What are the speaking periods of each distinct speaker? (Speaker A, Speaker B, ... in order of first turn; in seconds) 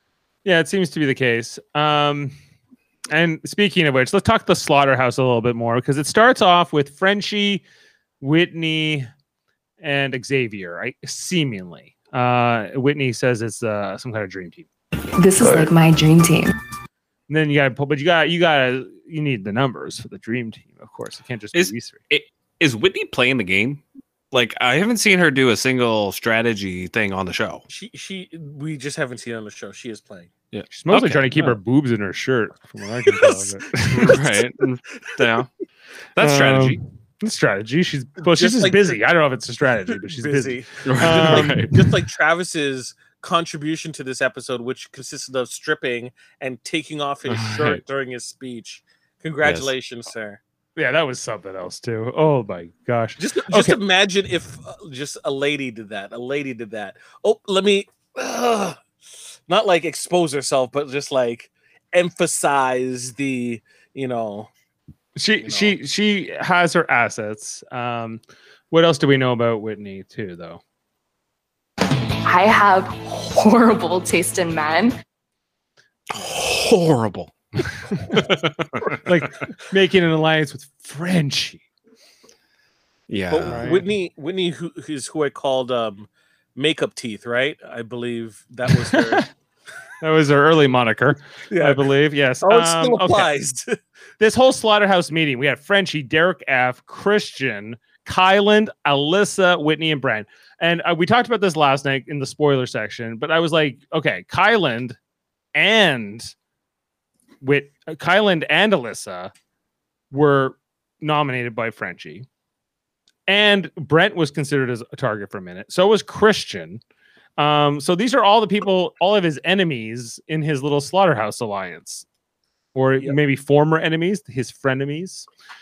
Speaker A: 0.5-2.3, 3.1-7.6, 8.2-9.1, 9.8-14.7, 17.3-22.0, 30.7-34.0, 36.2-41.6, 50.8-53.8, 65.2-70.6, 79.0-81.6, 83.5-83.8, 88.7-89.2, 90.0-93.3, 94.2-105.0, 105.5-106.3, 107.4-109.3, 110.1-112.3, 113.3-116.8, 117.4-122.0, 122.8-125.3
Speaker B: 15.2-16.5, 72.3-74.9
Speaker C: 21.5-23.8, 24.3-27.6, 30.5-31.5, 33.9-35.5, 36.1-36.8, 40.9-42.0, 47.3-47.8, 49.4-49.7, 76.1-77.3, 78.1-79.0, 83.1-83.7
Speaker D: 27.7-30.3, 33.1-34.4, 38.3-39.0, 40.0-50.4, 53.2-58.8, 59.5-64.5, 65.5-65.8, 83.3-89.3, 91.5-91.8, 92.4-93.8